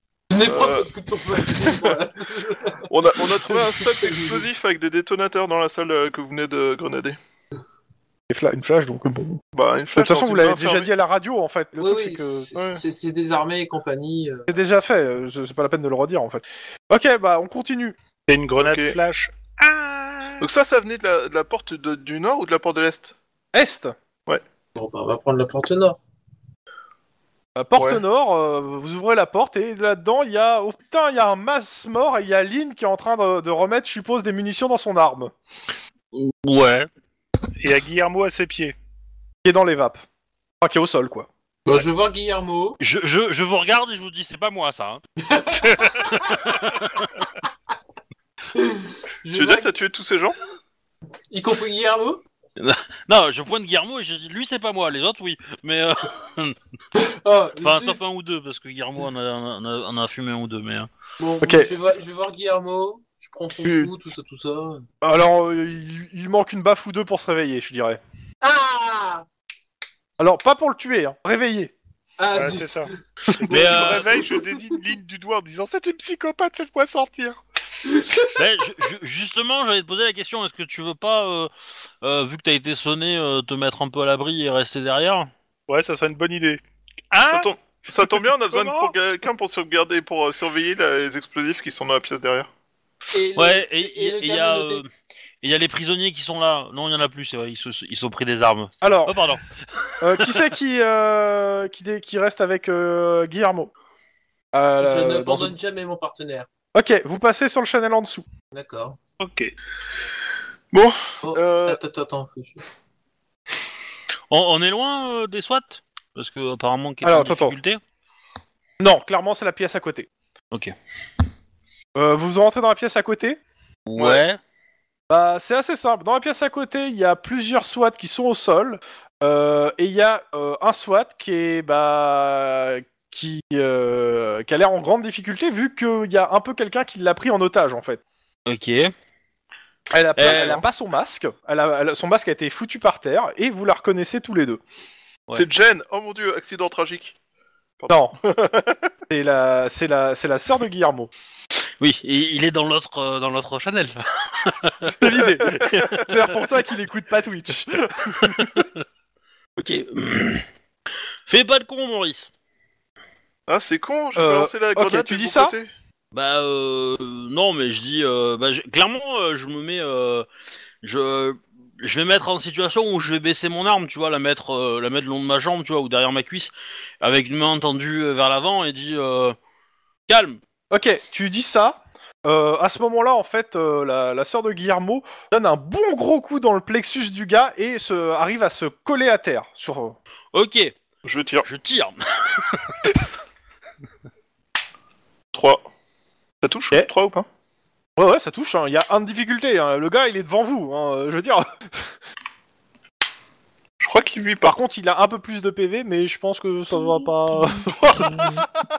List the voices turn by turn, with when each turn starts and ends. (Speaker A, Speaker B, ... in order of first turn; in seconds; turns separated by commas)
Speaker A: 0.3-4.5, Speaker B: 0.4-0.9, Speaker B: 2.9-7.2, Speaker C: 8.3-9.4, Speaker B: 9.5-10.9, Speaker C: 9.9-12.5, Speaker A: 11.8-14.5, Speaker B: 12.5-12.8, Speaker C: 14.5-17.9, Speaker D: 18.3-20.4, Speaker B: 18.6-18.9, Speaker B: 20.4-23.1, Speaker C: 23.5-23.9, Speaker A: 24.7-26.0, Speaker C: 27.6-35.3, Speaker B: 27.8-28.0, Speaker E: 36.1-36.9, Speaker D: 37.6-38.7, Speaker C: 39.4-40.0, Speaker C: 40.6-41.3, Speaker A: 41.6-42.8, Speaker E: 42.8-45.0, Speaker A: 45.2-46.4, Speaker E: 46.0-47.1, Speaker A: 48.5-49.7, Speaker B: 49.3-50.4, Speaker A: 51.3-52.2, Speaker E: 52.6-56.6, Speaker A: 56.9-58.0, Speaker E: 57.6-60.9, Speaker A: 61.2-64.8, Speaker C: 61.4-61.7, Speaker C: 63.6-63.9, Speaker C: 65.0-68.0, Speaker A: 68.4-69.2, Speaker C: 70.2-71.7, Speaker A: 72.2-73.0, Speaker D: 72.3-77.4, Speaker E: 73.5-74.1, Speaker A: 73.5-73.9, Speaker A: 77.8-78.3, Speaker E: 78.3-81.5, Speaker E: 82.0-85.3, Speaker D: 85.7-88.9, Speaker B: 87.3-92.5, Speaker A: 93.1-94.8, Speaker E: 93.3-94.9, Speaker E: 95.4-100.4, Speaker C: 98.8-99.2, Speaker C: 100.0-103.7, Speaker C: 104.5-105.5, Speaker A: 104.8-106.5, Speaker C: 106.7-108.2, Speaker A: 108.5-109.0, Speaker D: 109.2-109.5, Speaker B: 110.7-111.8, Speaker A: 111.2-112.6, Speaker E: 114.3-117.8, Speaker C: 117.0-117.5, Speaker C: 118.8-120.1, Speaker C: 121.9-123.4, Speaker E: 123.9-124.4, Speaker B: 124.0-124.2, Speaker C: 125.1-138.0, Speaker E: 138.5-138.9, Speaker C: 139.9-144.6, Speaker E: 140.2-140.6, Speaker B: 145.3-147.1, Speaker B: 147.8-148.8, Speaker C: 147.9-148.2, Speaker C: 149.1-151.1, Speaker E: 151.8-156.1, Speaker C: 154.9-158.7, Speaker E: 158.3-158.7, Speaker E: 159.6-160.4, Speaker E: 161.3-162.3, Speaker B: 163.5-165.7, Speaker C: 164.1-165.5, Speaker E: 166.1-170.3, Speaker E: 170.8-179.3, Speaker E: 180.1-180.4, Speaker C: 180.7-190.0, Speaker E: 190.3-190.7, Speaker B: 191.0-191.4, Speaker E: 191.4-192.8, Speaker B: 195.3-195.7, Speaker B: 196.4-197.3, Speaker C: 198.0-201.9, Speaker B: 203.8-204.5, Speaker C: 204.4-208.2, Speaker B: 207.8-208.4